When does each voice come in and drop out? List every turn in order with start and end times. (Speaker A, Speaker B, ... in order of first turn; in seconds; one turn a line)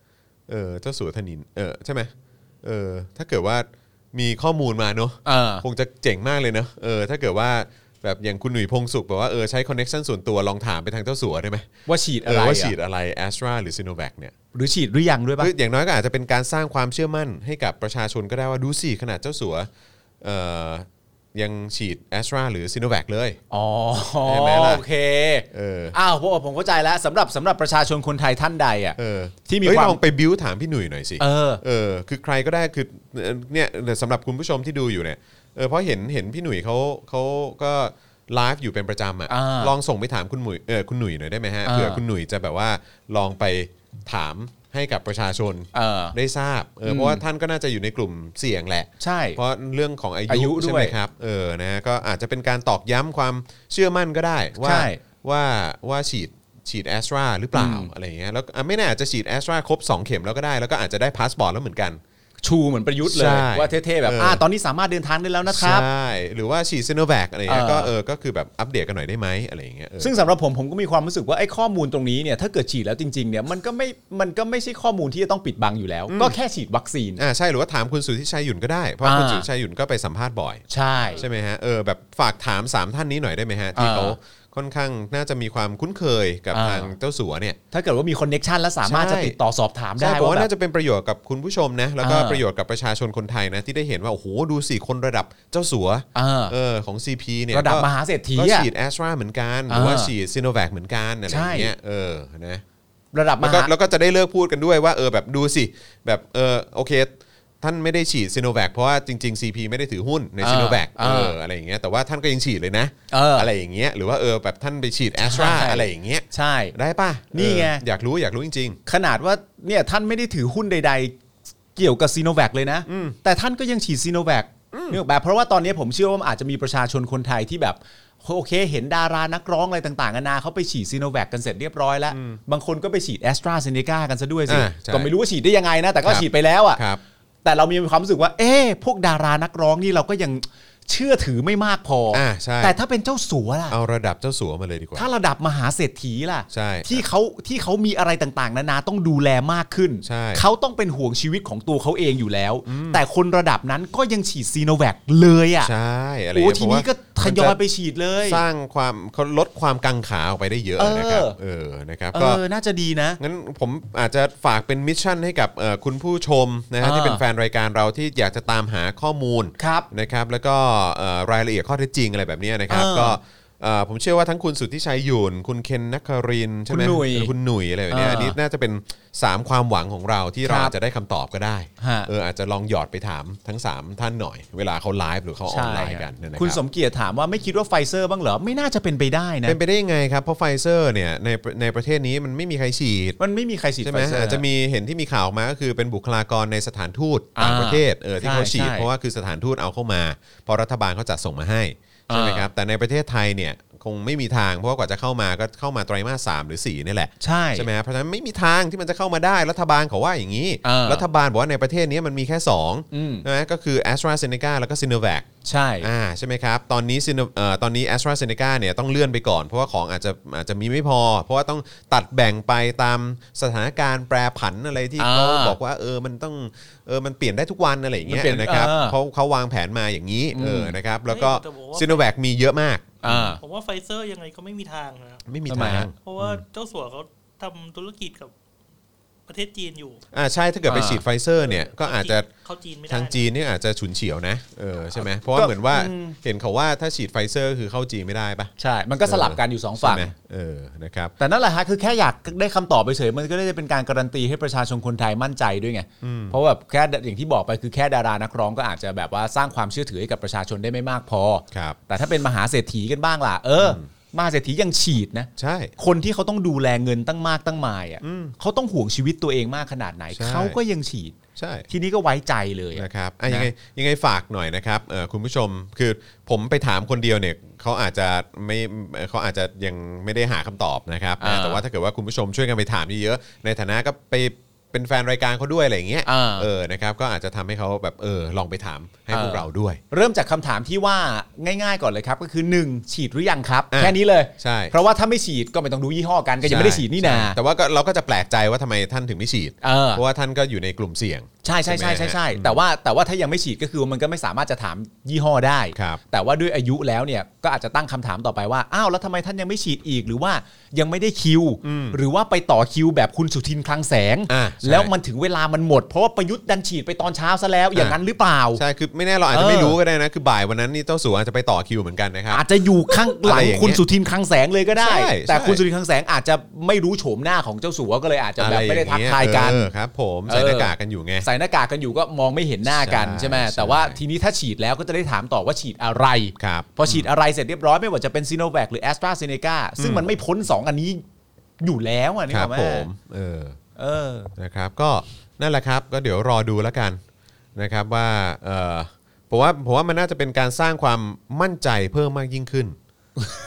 Speaker A: 0.5-11.7
Speaker B: 5.2-5.6
Speaker B: 11.8-12.7
Speaker A: 12.2-14.3
Speaker B: 14.5-15.5
Speaker A: 15.4-19.7
Speaker A: 20.2-23.4
Speaker B: 23.5-30.0
Speaker A: 24.2-24.8
Speaker A: 25.5-25.9
Speaker A: 29.0-62.0
Speaker B: 31.2-31.6
Speaker B: 39.3-39.7
Speaker B: 41.6-42.0
Speaker B: 45.7-46.1
Speaker B: 46.8-47.2
Speaker B: 49.0-49.4
Speaker B: 50.3-50.9
Speaker B: 54.6-55.0
Speaker B: 57.5-57.9
Speaker B: 62.4-65.8
Speaker A: 63.0-64.4
Speaker A: 65.5-70.2
Speaker B: 67.5-67.9
Speaker B: 70.0-77.2
Speaker A: 76.1-76.4
Speaker A: 77.2-80.6
Speaker B: 79.0-79.5
Speaker B: 80.7-81.2
Speaker A: 81.1-87.6
Speaker B: 83.8-84.2
Speaker B: 86.5-86.9
Speaker B: 87.7-90.5
Speaker A: 88.8-89.3
Speaker A: 90.0-102.6
Speaker B: 92.0-92.4
Speaker B: 96.1-96.5
Speaker B: 97.5-98.7
Speaker B: 99.7-100.1
Speaker B: 101.3-101.7
Speaker B: 103.1-103.7
Speaker A: 103.4-118.8
Speaker B: 110.4-111.4
Speaker B: 113.1-113.5
Speaker B: 115.2-116.7
Speaker B: 117.3-117.8
Speaker B: 118.8-121.1
Speaker B: 121.8-136.8
Speaker A: 122.9-123.2
Speaker A: 124.7-125.0
Speaker A: 132.1-132.4
Speaker A: 134.5-135.1
Speaker A: 136.0-137.0
Speaker B: 137.4-143.8
Speaker A: 142.1-142.8
Speaker A: 143.7-145.1
Speaker B: 144.9-155.7
Speaker A: 146.5-147.0
Speaker A: 150.0-150.4
Speaker A: 152.7-153.0
Speaker A: 155.6-157.6
Speaker B: 156.3-158.4
Speaker A: 158.2-162.4
Speaker B: 160.8-161.4
Speaker B: 162.1-163.2
Speaker A: 163.2-186.6
Speaker B: 166.8-167.2
Speaker B: 169.6-169.9
Speaker B: 172.7-173.2
Speaker B: 176.7-177.3
Speaker B: 177.9-178.4
Speaker B: 180.4-180.7
Speaker B: 181.8-182.1
Speaker B: 185.5-189.6
Speaker A: 189.4-193.2
Speaker B: 193.2-194.4
Speaker A: 193.8-215.2
Speaker B: 197.3-198.9
Speaker B: 202.1-202.5
Speaker B: 207.2-207.7
Speaker B: 210.6-211.0
Speaker B: 212.9-213.2
Speaker B: 215.4-215.9
Speaker A: 215.8-233.4
Speaker B: 225.0-225.6
Speaker B: 228.1-228.9
Speaker B: 230.3-230.8
Speaker C: 231.1-232.1
Speaker B: 233.0-233.4
Speaker C: 233.4-235.2
Speaker A: 235.2-236.4
Speaker B: 235.5-235.9
Speaker C: 236.0-238.3
Speaker C: 239.3-240.0
Speaker A: 240.1-242.3
Speaker B: 240.7-241.0
Speaker C: 241.3-243.3
Speaker A: 242.9-248.5
Speaker B: 245.0-246.2
Speaker B: 248.6-250.1
Speaker A: 249.0-251.1
Speaker B: 251.2-271.1
Speaker A: 256.0-256.4
Speaker A: 261.5-261.8
Speaker A: 263.6-263.9
Speaker A: 265.4-265.7
Speaker A: 268.0-268.3
Speaker A: 270.1-270.6
Speaker A: 271.4-271.7
Speaker B: 271.7-273.5
Speaker A: 272.7-289.8
Speaker B: 281.2-281.6
Speaker B: 286.1-286.5
Speaker B: 289.1-297.4
Speaker A: 293.7-294.7
Speaker A: 296.4-302.6
Speaker B: 299.6-300.0
Speaker B: 301.4-318.6
Speaker A: 305.7-306.0
Speaker A: 311.6-312.0
Speaker A: 314.3-314.9
Speaker A: 317.7-318.0
Speaker A: 318.5-322.4
Speaker B: 319.3-319.8
Speaker B: 322.3-329.7
Speaker A: 323.0-323.8
Speaker A: 324.8-325.6
Speaker A: 328.4-331.3
Speaker B: 330.3-341.0
Speaker A: 332.6-334.0
Speaker A: 336.4-337.1
Speaker A: 339.8-340.1
Speaker B: 341.6-342.9
Speaker A: 342.3-343.6
Speaker B: 343.8-344.3
Speaker A: 344.4-347.0
Speaker A: 347.6-352.8